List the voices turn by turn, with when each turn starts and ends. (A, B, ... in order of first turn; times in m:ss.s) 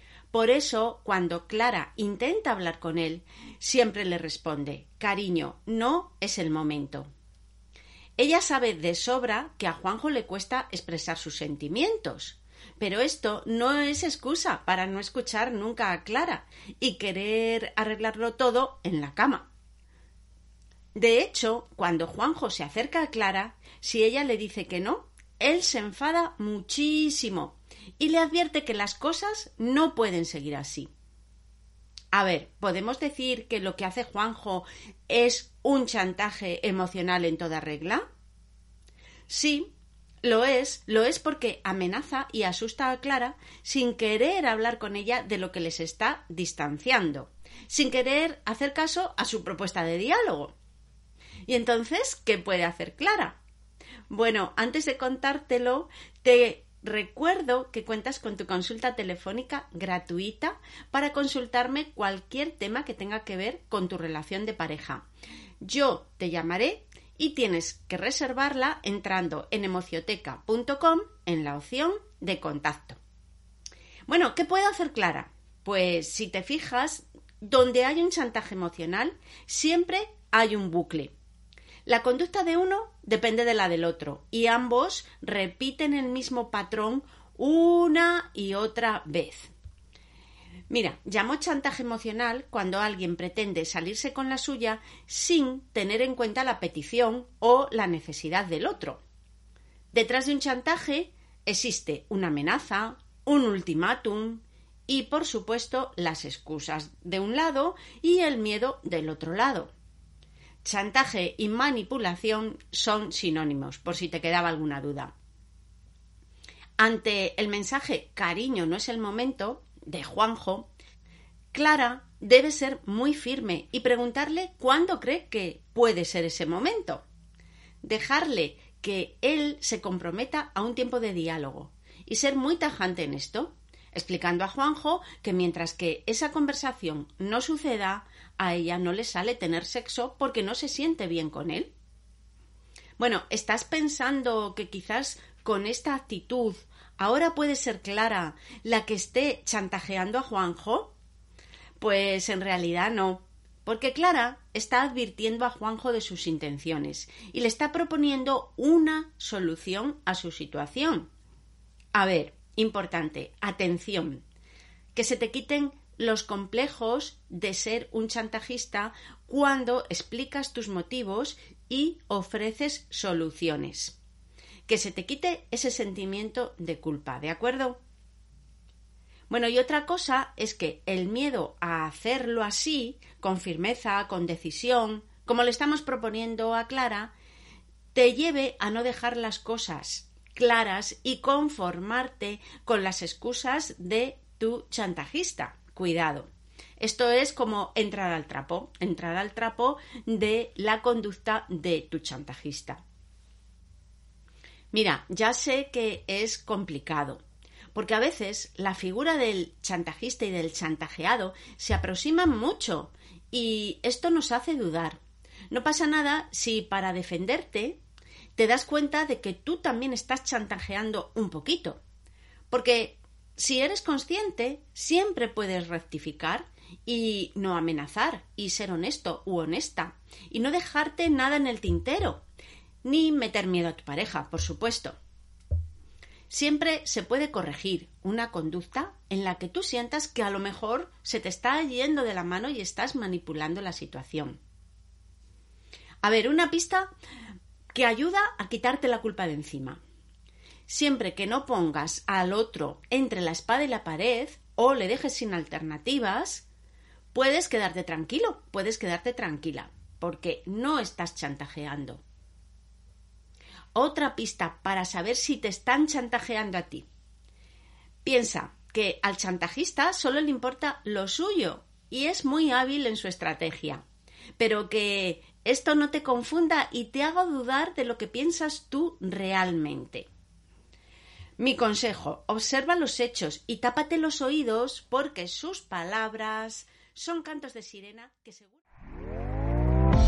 0:00.3-0:07.1 A
0:08.2-0:19.5 A
0:21.0-0:30.9 A
0:32.1-0:38.0 A
0:39.3-0:50.6 A
0:51.5-0:53.4 A
0:54.1-1:05.1 A
1:05.6-1:13.0 A
1:14.1-1:21.1 A
1:21.9-1:29.5 A
1:30.7-1:39.0 A
1:39.9-1:49.7 A
1:50.6-1:55.1 A
1:56.8-2:00.7 A
2:01.5-2:07.0 A
2:07.8-2:21.7 A
2:23.0-2:30.9 A
2:31.8-2:41.1 A
2:41.9-2:44.2 A
2:44.9-2:54.0 A
2:54.7-2:57.8 A
2:59.3-3:07.2 A
3:07.9-3:22.8 A
3:24.7-3:27.2 A
3:27.7-3:35.0 A
3:35.5-3:37.8 A
3:38.4-3:41.8 A
3:42.5-3:52.2 A
3:52.8-3:55.0 A
3:56.3-4:04.4 A
4:06.0-4:06.9 A
4:07.7-4:09.8 A
4:10.7-4:16.5 A
4:17.1-4:22.0 A
4:23.8-4:26.9 A
4:28.0-4:33.8 A
4:34.4-4:40.1 A
4:41.4-4:48.6 A